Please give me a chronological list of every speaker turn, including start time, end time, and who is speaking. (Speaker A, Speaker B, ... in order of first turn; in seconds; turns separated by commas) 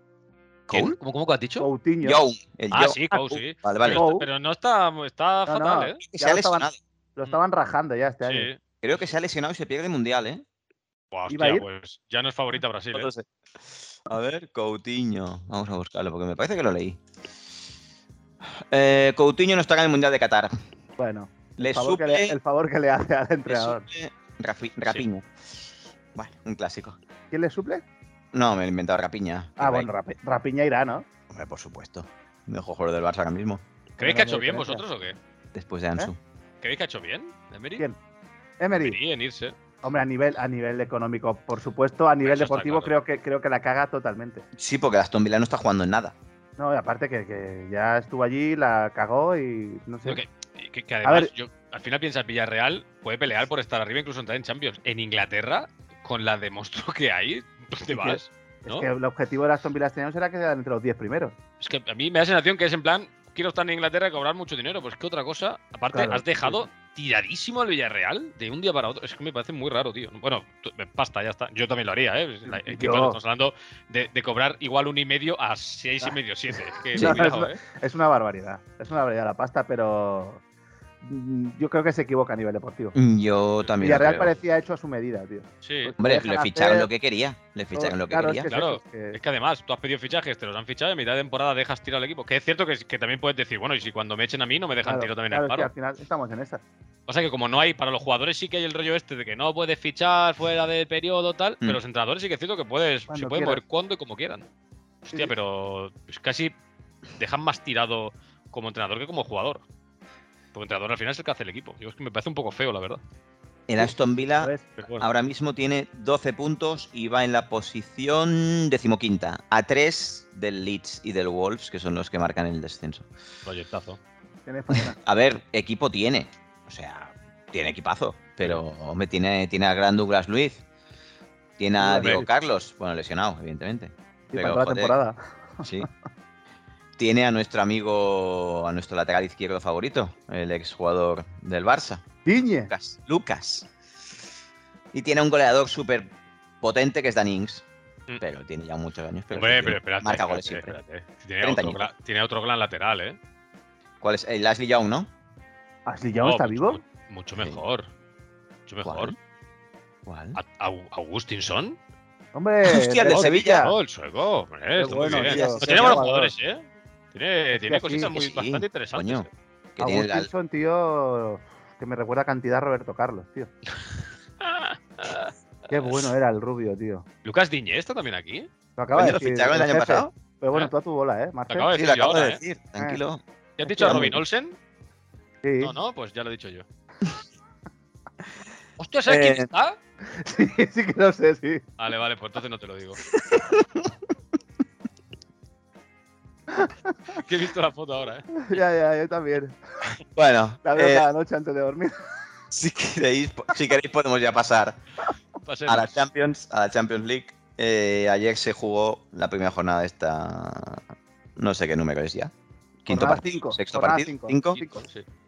Speaker A: 0.7-0.9, Speaker B: 0.7-1.7, Speaker C: 1.6-2.2, Speaker A: 2.0-4.0, Speaker B: 2.7-6.0, Speaker C: 3.9-4.3, Speaker C: 5.5-8.5, Speaker A: 6.1-6.8, Speaker B: 8.2-8.6, Speaker A: 8.8-10.4, Speaker B: 11.1-13.1, Speaker C: 11.3-11.7, Speaker A: 12.9-13.3, Speaker A: 14.0-17.0, Speaker A: 18.4-20.5, Speaker C: 21.0-23.8, Speaker A: 21.6-22.4, Speaker A: 23.5-25.3, Speaker A: 26.1-27.0, Speaker C: 27.3-27.8, Speaker A: 28.3-29.9, Speaker C: 29.6-31.1, Speaker A: 31.3-33.6, Speaker B: 34.0-35.2, Speaker C: 34.0-34.8, Speaker A: 35.5-36.2, Speaker B: 36.6-37.8, Speaker C: 38.6-39.0, Speaker B: 38.8-39.5, Speaker C: 39.8-44.4, Speaker B: 42.2-42.9, Speaker A: 44.5-46.1, Speaker C: 46.6-50.2, Speaker B: 50.0-58.9, Speaker C: 51.0-51.3, Speaker C: 57.9-61.4, Speaker B: 61.6-77.6, Speaker C: 65.9-66.6, Speaker C: 72.5-73.2, Speaker C: 76.9-80.4, Speaker C: 81.0-83.0, Speaker A: 82.9-84.3, Speaker C: 83.8-86.9, Speaker B: 85.6-85.9, Speaker A: 86.0-88.5, Speaker C: 87.7-89.2, Speaker B: 88.5-95.7, Speaker C: 94.8-96.6, Speaker B: 97.1-104.5, Speaker C: 103.1-103.6, Speaker B: 105.0-106.5, Speaker B: 107.2-109.6, Speaker B: 110.5-113.0, Speaker A: 113.7-123.0, Speaker C: 114.4-114.7, Speaker B: 114.8-115.0, Speaker B: 123.5-124.0, Speaker C: 124.5-125.0, Speaker A: 124.7-130.6, Speaker A: 131.6-134.9, Speaker C: 131.8-132.3, Speaker C: 134.3-135.9, Speaker A: 137.0-142.0, Speaker C: 142.2-142.7, Speaker A: 142.7-143.7, Speaker A: 144.9-146.1, Speaker A: 146.6-147.6, Speaker A: 148.2-150.7, Speaker B: 149.3-153.2, Speaker A: 151.4-151.9, Speaker A: 154.0-155.1, Speaker C: 155.8-156.8, Speaker B: 156.2-157.9, Speaker B: 158.7-159.1, Speaker A: 158.8-159.2, Speaker A: 160.1-160.4, Speaker B: 160.3-161.8, Speaker C: 162.3-163.7, Speaker A: 162.6-163.7, Speaker B: 163.1-169.3, Speaker C: 164.8-166.3, Speaker A: 164.9-166.0, Speaker C: 167.5-168.1, Speaker A: 168.0-170.3, Speaker C: 169.8-173.5, Speaker B: 174.4-176.1, Speaker C: 175.7-177.1, Speaker B: 177.2-178.5, Speaker C: 178.8-181.7, Speaker A: 178.9-180.1, Speaker B: 181.5-182.4, Speaker A: 181.7-183.2, Speaker B: 183.6-184.6, Speaker C: 183.6-184.2, Speaker A: 183.8-184.1, Speaker C: 185.4-185.7, Speaker B: 185.6-186.6, Speaker B: 188.8-189.8, Speaker A: 189.1-189.5, Speaker C: 190.0-191.6, Speaker B: 191.8-193.0, Speaker A: 193.1-193.9, Speaker C: 196.5-196.9, Speaker B: 197.1-198.3, Speaker C: 198.4-199.5, Speaker A: 200.1-201.1, Speaker C: 200.6-201.9, Speaker A: 202.5-204.8, Speaker B: 205.4-205.9, Speaker A: 205.7-210.8, Speaker A: 211.4-212.3, Speaker A: 212.8-214.6, Speaker C: 212.9-214.8, Speaker B: 214.5-215.0